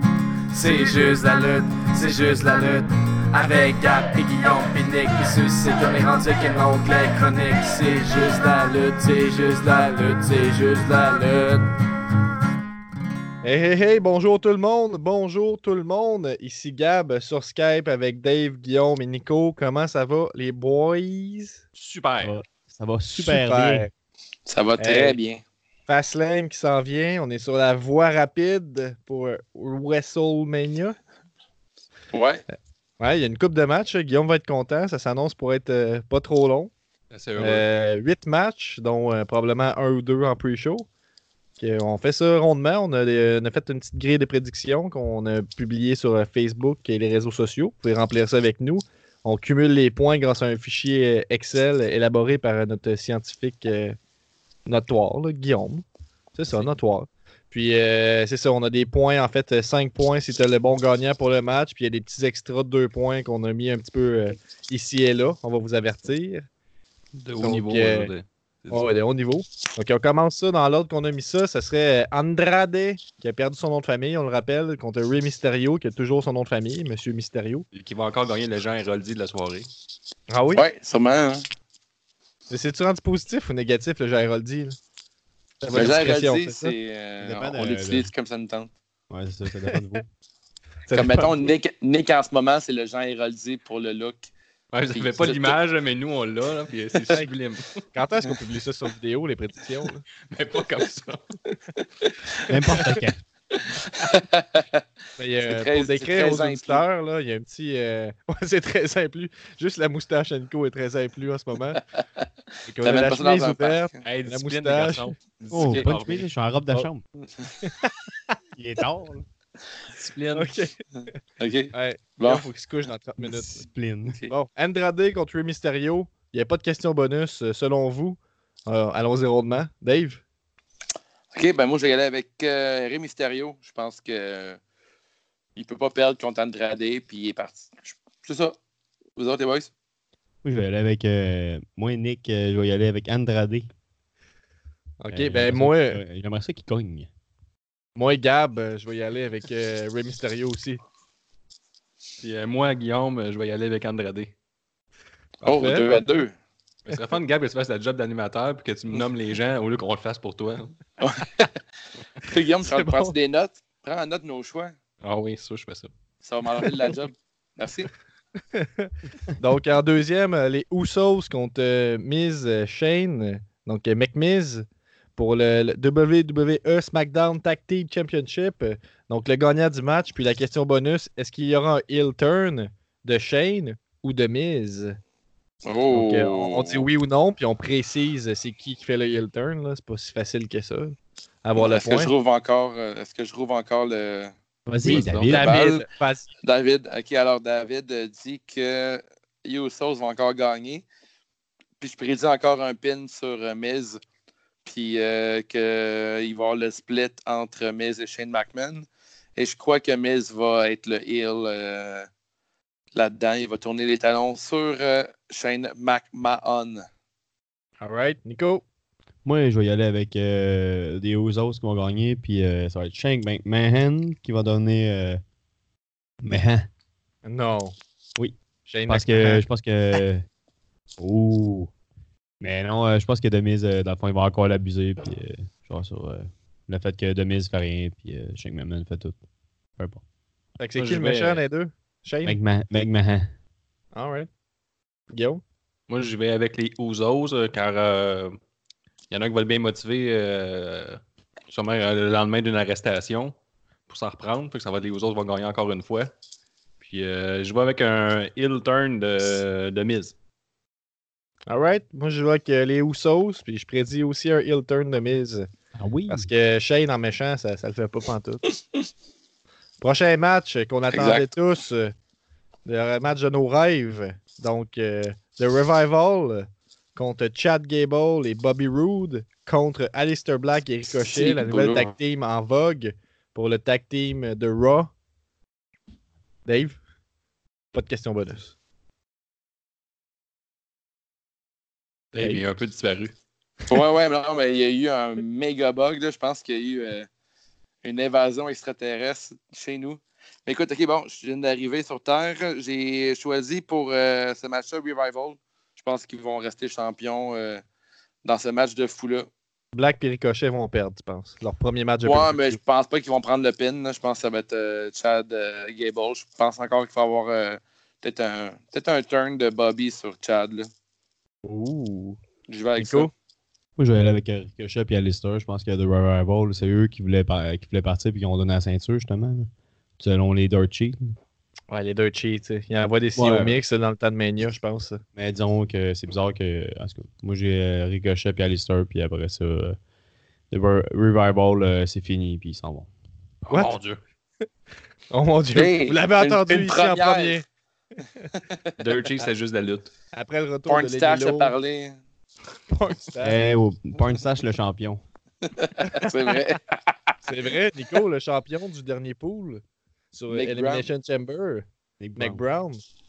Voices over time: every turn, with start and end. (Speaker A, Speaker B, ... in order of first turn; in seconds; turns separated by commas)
Speaker A: 0.5-11.7, Speaker B: 13.4-21.6, Speaker C: 21.8-22.3, Speaker D: 22.2-23.9, Speaker B: 23.1-23.9, Speaker E: 24.5-25.4, Speaker B: 24.8-25.2, Speaker B: 25.9-31.0, Speaker E: 32.1-32.4, Speaker B: 33.0-36.7, Speaker C: 37.1-37.6, Speaker B: 37.4-40.9, Speaker B: 41.6-54.0, Speaker B: 54.7-55.8, Speaker B: 56.4-66.5, Speaker C: 67.2-68.9, Speaker B: 67.4-68.1, Speaker B: 68.7-77.7, Speaker C: 77.7-79.7, Speaker B: 80.3-80.6, Speaker E: 80.5-81.5, Speaker B: 82.5-84.8, Speaker B: 85.6-86.7, Speaker E: 85.7-88.7, Speaker D: 87.2-88.1, Speaker D: 89.1-90.0, Speaker B: 90.9-91.5, Speaker E: 90.9-94.3, Speaker C: 94.7-97.7, Speaker E: 94.9-95.6, Speaker B: 97.9-100.0, Speaker C: 100.3-101.2, Speaker E: 101.8-102.1, Speaker D: 102.5-103.2, Speaker E: 103.8-104.8, Speaker B: 105.2-111.8, Speaker E: 105.5-106.8, Speaker E: 111.9-112.3, Speaker B: 112.7-115.1, Speaker E: 112.8-114.0, Speaker C: 114.0-116.3, Speaker D: 115.5-117.0, Speaker B: 117.6-118.1, Speaker D: 118.6-119.2, Speaker C: 119.9-120.5, Speaker B: 120.3-120.8, Speaker E: 121.0-122.4, Speaker B: 121.7-123.6, Speaker D: 123.2-124.2, Speaker B: 124.3-130.2, Speaker E: 131.3-134.6, Speaker E: 135.6-138.6, Speaker E: 139.2-139.7, Speaker D: 140.4-143.7, Speaker B: 145.0-146.0, Speaker D: 145.1-147.1, Speaker B: 148.0-150.8, Speaker C: 152.2-154.3, Speaker E: 155.4-156.3, Speaker B: 155.4-156.0, Speaker C: 156.8-160.8, Speaker E: 161.0-161.5, Speaker E: 162.3-164.8, Speaker B: 162.7-163.2, Speaker C: 165.0-165.9, Speaker E: 166.2-167.9, Speaker B: 168.6-185.0, Speaker E: 185.7-186.9, Speaker B: 185.9-192.1, Speaker E: 191.6-194.3, Speaker D: 194.7-195.5, Speaker C: 194.8-195.3, Speaker B: 195.2-196.3, Speaker E: 195.3-195.9, Speaker E: 196.4-200.8, Speaker E: 201.8-204.0, Speaker E: 204.7-212.1, Speaker E: 212.9-216.8, Speaker B: 217.8-218.6, Speaker D: 219.2-225.2, Speaker D: 226.2-226.7, Speaker B: 227.2-227.8, Speaker B: 228.7-229.4, Speaker D: 228.9-230.2, Speaker D: 231.0-231.7, Speaker D: 232.4-239.2, Speaker D: 239.8-240.0, Speaker B: 240.6-242.4, Speaker C: 240.8-241.4, Speaker D: 242.2-243.3, Speaker B: 243.9-244.3, Speaker B: 245.1-245.4, Speaker C: 245.9-248.4, Speaker C: 249.1-253.3, Speaker C: 253.9-256.1, Speaker C: 256.8-260.1, Speaker B: 261.5-265.5, Speaker D: 265.8-266.3, Speaker B: 266.1-268.4, Speaker B: 269.8-271.9, Speaker E: 270.9-271.3, Speaker B: 272.7-284.9, Speaker E: 281.0-281.9, Speaker B: 286.5-286.8, Speaker B: 287.7-288.5, Speaker C: 292.1-293.1, Speaker E: 293.7-297.1, Speaker E: 297.8-307.6, Speaker E: 308.2-309.3, Speaker B: 309.7-312.6, Speaker E: 312.0-320.7, Speaker B: 321.4-322.2, Speaker E: 322.5-323.1, Speaker B: 322.8-323.1, Speaker D: 323.8-331.2, Speaker B: 331.7-335.0, Speaker D: 333.2-333.6, Speaker D: 335.2-339.8, Speaker D: 340.5-342.9, Speaker C: 343.5-344.0, Speaker B: 345.1-347.4, Speaker E: 345.5-347.4, Speaker E: 348.3-348.7, Speaker C: 348.8-349.9, Speaker B: 350.1-351.6, Speaker E: 350.7-352.0, Speaker B: 352.7-353.4, Speaker D: 353.2-355.0, Speaker E: 355.6-357.1, Speaker B: 355.9-356.4, Speaker B: 357.2-361.6, Speaker E: 360.3-360.9, Speaker D: 362.0-362.4, Speaker B: 362.2-362.8